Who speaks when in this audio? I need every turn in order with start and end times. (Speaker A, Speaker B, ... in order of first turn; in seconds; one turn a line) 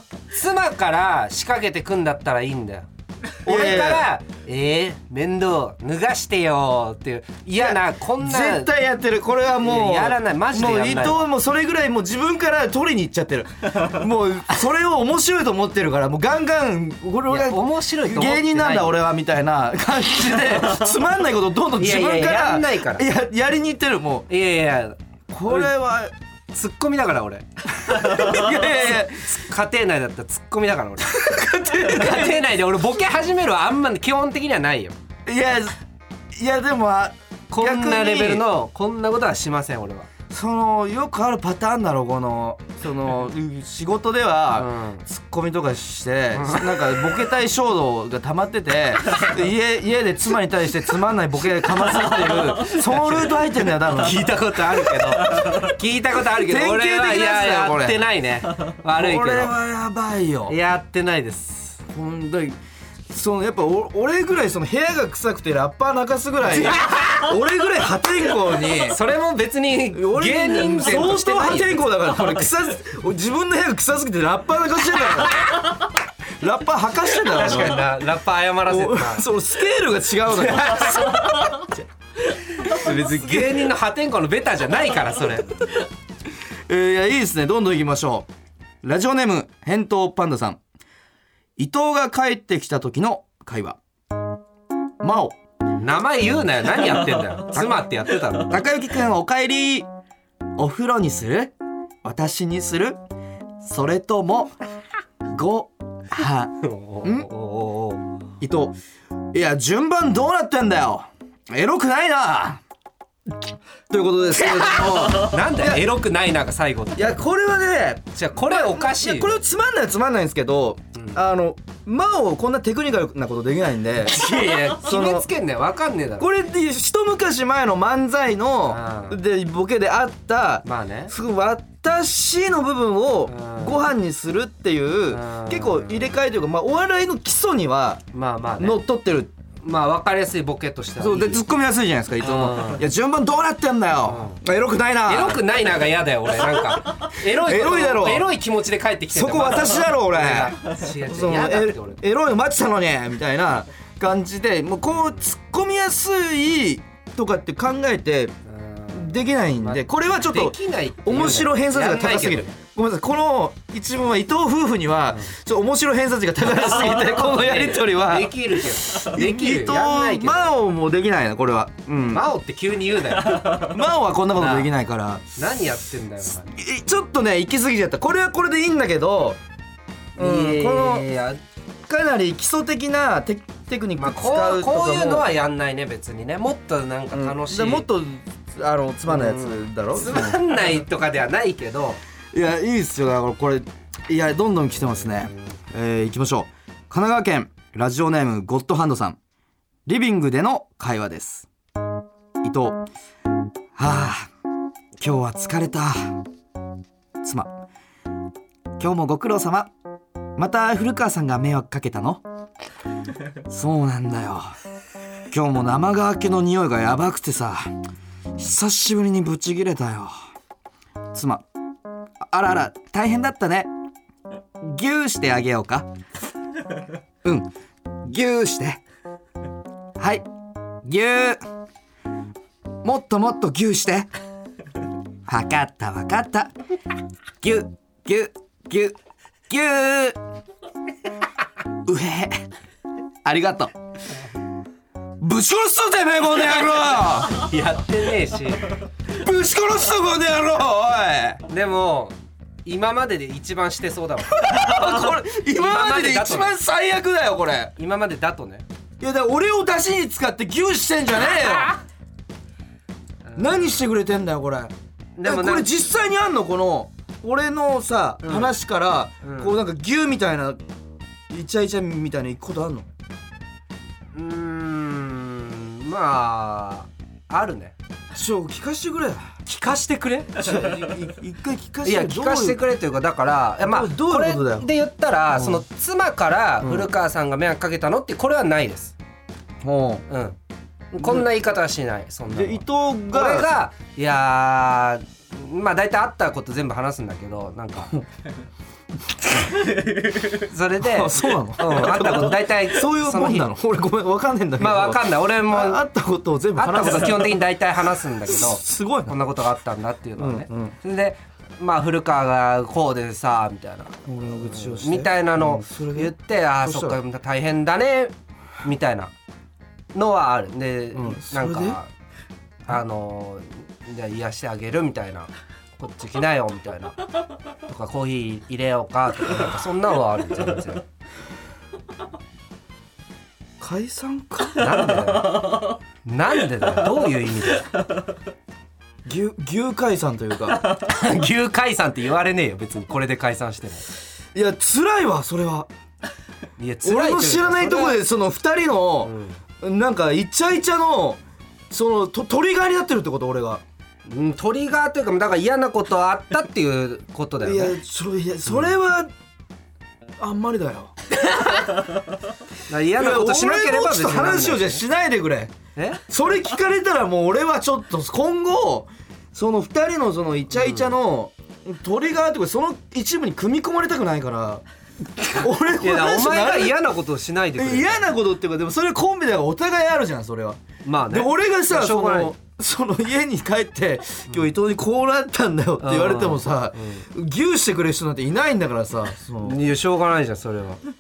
Speaker A: 0.3-2.9
Speaker A: 3.4-8.7
Speaker B: 3.5-4.1
Speaker B: 7.6-24.3
Speaker A: 9.6-11.3
Speaker A: 17.3-19.0
Speaker A: 21.8-23.1
Speaker A: 24.3-25.7
Speaker B: 25.3-26.1
Speaker A: 26.5-35.0
Speaker B: 27.9-29.4
Speaker B: 31.0-32.4
Speaker B: 35.3-35.8
Speaker B: 36.3-38.5
Speaker A: 37.5-40.1
Speaker B: 40.3-55.8
Speaker A: 44.6-45.0
Speaker A: 46.4-47.2
Speaker A: 52.0-59.5
Speaker B: 56.3-58.0
Speaker B: 58.9-60.6
Speaker A: 60.5-61.8
Speaker B: 61.9-62.6
Speaker B: 63.1-69.0
Speaker A: 66.5-67.3
Speaker A: 68.6-72.2
Speaker B: 69.9-75.7
Speaker B: 76.4-77.9
Speaker A: 77.2-79.3
Speaker B: 78.7-81.8
Speaker A: 80.3-81.6
Speaker A: 82.3-85.7
Speaker B: 82.6-83.6
Speaker B: 86.7-88.3
Speaker B: 88.8-90.6
Speaker B: 91.6-93.8
Speaker B: 95.0-95.4
Speaker A: 95.8-98.6
Speaker B: 97.5-99.9
Speaker B: 100.6-101.5
Speaker B: 102.0-103.0
Speaker B: 103.6-104.5
Speaker B: 105.3-107.3
Speaker A: 106.6-108.0
Speaker B: 108.4-108.8
Speaker B: 109.3-112.6
Speaker B: 113.9-115.9
Speaker A: 114.4-117.2
Speaker B: 117.0-125.3
Speaker A: 118.2-119.3
Speaker A: 124.1-126.3
Speaker B: 126.2-138.0
Speaker A: 128.7-129.2
Speaker A: 130.6-131.1
Speaker A: 133.3-133.8
Speaker A: 135.1-136.1
Speaker A: 138.1-138.8
Speaker B: 138.6-139.3
Speaker A: 139.6-141.4
Speaker B: 141.0-145.5
Speaker A: 142.2-142.9
Speaker A: 144.1-144.4
Speaker A: 145.1-152.0
Speaker B: 147.2-148.3
Speaker B: 149.1-158.3
Speaker A: 158.5-162.6
Speaker B: 158.9-172.3
Speaker A: 166.6-170.5
Speaker A: 171.9-173.8
Speaker B: 173.3-175.3
Speaker A: 174.4-174.7
Speaker A: 175.4-176.5
Speaker B: 176.5-179.4
Speaker B: 180.2-181.1
Speaker A: 180.2-181.4
Speaker B: 181.9-185.3
Speaker A: 184.0-187.9
Speaker B: 187.1-190.4
Speaker A: 189.1-192.0
Speaker B: 192.3-199.2
Speaker B: 199.9-201.5
Speaker B: 202.4-202.9
Speaker B: 203.8-204.3
Speaker B: 205.0-206.2
Speaker B: 207.2-207.6
Speaker B: 208.8-209.7
Speaker B: 210.4-212.2
Speaker B: 213.5-214.6
Speaker B: 215.3-217.7
Speaker B: 218.4-220.1
Speaker B: 221.1-221.5
Speaker B: 222.2-223.7
Speaker B: 224.6-225.9
Speaker B: 227.2-227.5
Speaker B: 228.0-228.8
Speaker B: 230.0-230.2
Speaker B: 230.8-231.4
Speaker B: 232.8-234.1
Speaker B: 235.3-236.5
Speaker B: 237.4-239.0
Speaker B: 239.5-240.2
Speaker B: 241.8-242.4
Speaker B: 243.2-243.7
Speaker B: 245.2-247.5
Speaker A: 247.3-248.8
Speaker B: 249.1-251.4
Speaker A: 251.5-256.6
Speaker B: 254.3-257.7
Speaker A: 257.8-258.6
Speaker B: 259.0-261.7
Speaker A: 261.3-261.8
Speaker A: 263.3-263.9
Speaker B: 263.4-264.7
Speaker A: 265.2-265.7
Speaker B: 265.2-270.6
Speaker A: 268.2-268.5
Speaker A: 269.2-269.6
Speaker B: 271.3-272.9
Speaker A: 274.1-277.8
Speaker B: 278.1-279.4
Speaker A: 279.5-280.7
Speaker B: 280.4-282.6
Speaker A: 281.8-289.0
Speaker B: 283.6-284.7
Speaker B: 285.4-285.6
Speaker B: 286.6-286.9
Speaker B: 289.6-290.1
Speaker A: 290.1-290.4
Speaker A: 290.9-297.9
Speaker B: 291.0-291.3
Speaker B: 292.3-293.5
Speaker B: 299.1-300.2
Speaker A: 300.1-303.5
Speaker B: 300.8-307.4
Speaker A: 304.6-305.8
Speaker A: 306.6-319.1
Speaker B: 308.2-309.2
Speaker B: 310.2-310.8
Speaker B: 314.1-317.0
Speaker A: 319.9-321.9
Speaker B: 320.9-321.8
Speaker A: 322.7-327.0
Speaker A: 327.6-330.9
Speaker B: 333.6-335.2
Speaker A: 334.6-337.8
Speaker B: 339.1-340.7
Speaker A: 340.6-343.9
Speaker B: 344.3-345.7
Speaker A: 346.6-348.0
Speaker B: 346.8-353.6
Speaker A: 349.0-349.4
Speaker A: 354.1-357.8
Speaker B: 357.4-359.1
Speaker B: 360.2-360.9
Speaker A: 361.1-362.0
Speaker A: 362.7-364.8
Speaker B: 363.0-365.5
Speaker A: 365.8-366.0
Speaker B: 366.1-374.6
Speaker A: 370.6-370.9
Speaker A: 375.2-378.1
Speaker B: 375.3-376.8
Speaker B: 377.6-389.6
Speaker A: 380.8-382.3
Speaker A: 385.8-387.0
Speaker A: 389.4-390.8